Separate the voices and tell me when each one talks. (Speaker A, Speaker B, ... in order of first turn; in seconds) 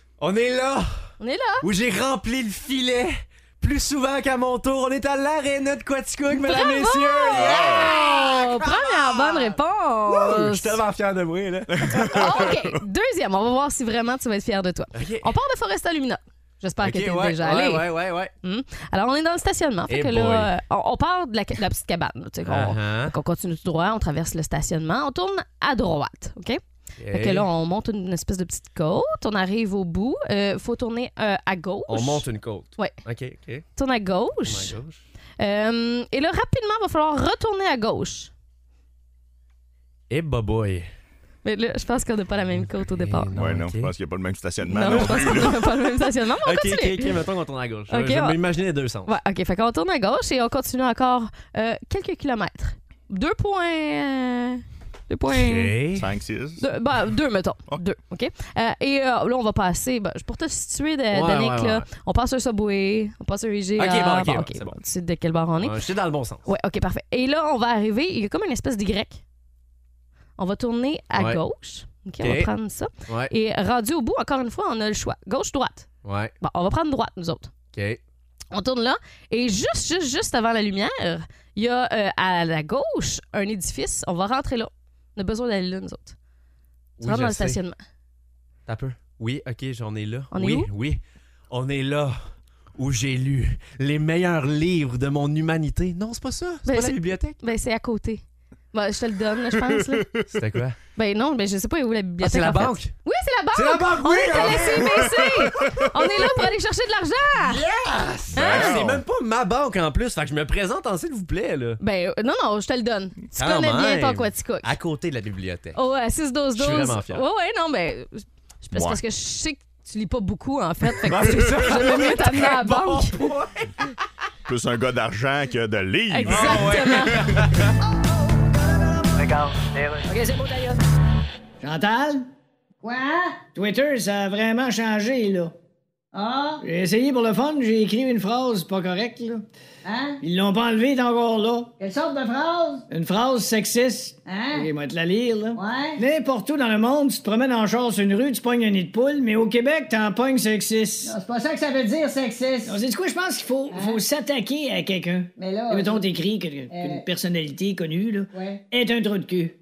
Speaker A: 0.2-1.1, 1.6-12.5, 14.9-15.3, 16.8-18.3, 19.9-20.5, 22.4-23.2, 27.0-27.5, 31.9-33.7, 34.4-35.0, 40.1-40.9, 42.6-43.9, 44.9-45.6, 46.4-49.1, 55.3-56.1, 61.1-61.9, 63.8-64.7, 65.6-66.5, 71.2-71.4, 72.2-72.5, 73.1-73.3, 76.0-76.3, 77.7-78.0, 87.0-87.6, 88.7-92.2, 92.8-97.4, 100.3-100.8, 102.2-103.0, 103.5-106.4, 107.5-111.8, 113.4-115.8, 116.5-117.2, 121.0-123.8, 126.2-127.6
Speaker B: 1.2-1.7, 6.3-10.8, 12.0-26.6, 27.1-32.3, 33.8-34.8, 35.4-38.3, 41.4-43.3, 44.6-47.2, 47.9-48.4, 49.1-55.7, 56.6-65.8, 66.5-69.2, 70.4-75.9, 76.4-77.5, 78.5-86.2, 87.0-87.8, 90.3-90.7, 96.7-98.2, 98.7-100.1, 101.0-107.6, 108.3-108.8, 111.8-114.7, 115.7-123.2, 126.1-127.3
Speaker C: 7.3-8.0, 11.7-12.8, 43.3-45.6, 56.0-56.6, 104.5-105.7, 108.3-109.0, 118.7-119.0, 124.5-127.4
Speaker D: 129.2-130.8, 132.8-133.5, 136.1-136.6, 139.8-140.2, 141.8-142.8, 144.3-144.7, 145.6-146.0, 151.0-152.8, 153.7-154.0, 155.4-156.1, 156.7-157.1, 158.3-158.6
Speaker E: 131.6-132.3, 133.6-135.5, 136.6-139.4, 140.2-141.7, 142.9-151.2, 152.7-159.5